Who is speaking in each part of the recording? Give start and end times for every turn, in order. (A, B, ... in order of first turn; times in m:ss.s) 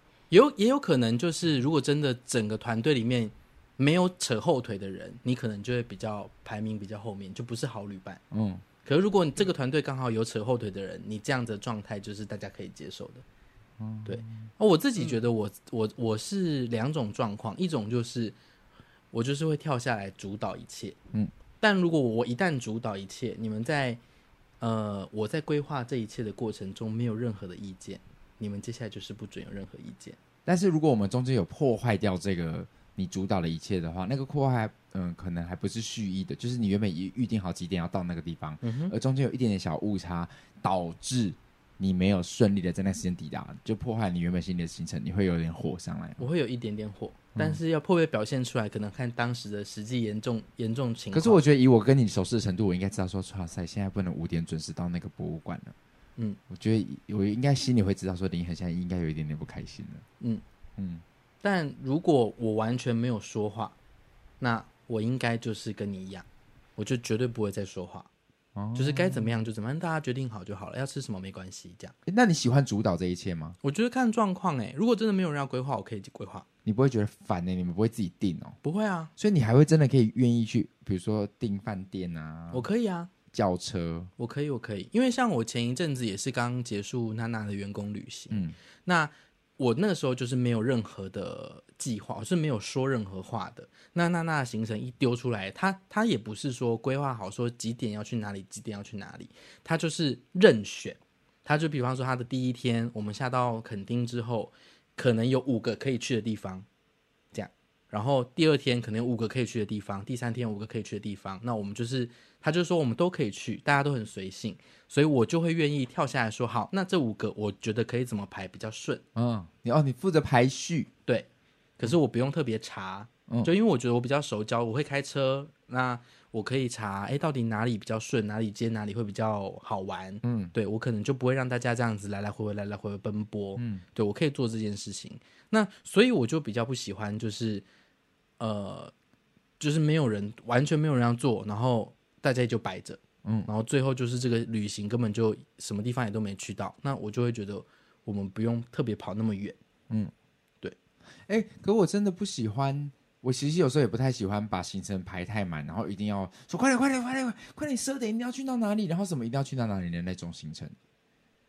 0:00.3-0:08.2 A
0:08.3-0:08.6 B
0:08.8-0:13.2 A
0:13.8-0:14.5 B
0:14.1-0:18.4 A
0:19.1-0:21.0 A
0:21.6-0:24.0 A
0:24.6-0:30.2 A
0:30.5-0:46.2 B
0:38.6-0:38.9 A
0:46.2-0:51.4 A
0:51.1-0:55.7 B
0:56.5-1:00.0 B
1:00.8-1:01.0 B
1:01.4-1:03.8 A
1:04.4-1:06.3 A
1:06.8-1:08.1 A
1:08.6-1:09.3 B
1:08.8-1:11.9 A
1:12.1-1:13.6 B
1:13.6-1:16.4 A
1:16.6-1:18.6 B
1:18.6-1:19.1 A
1:19.2-1:22.7 B
1:22.5-1:23.1 A
1:23.3-1:24.1 B
1:24.2-1:46.6 A
1:28.3-1:28.6 B
1:47.3-1:59.0 A
1:59.2-2:00.9 B
2:01.8-2:17.6 A
2:10.2-2:10.5 B
2:13.6-2:13.8 B
2:18.4-2:18.9 A
2:19.6-2:29.6 A
2:23.2-2:23.5 B
2:31.3-2:40.8 B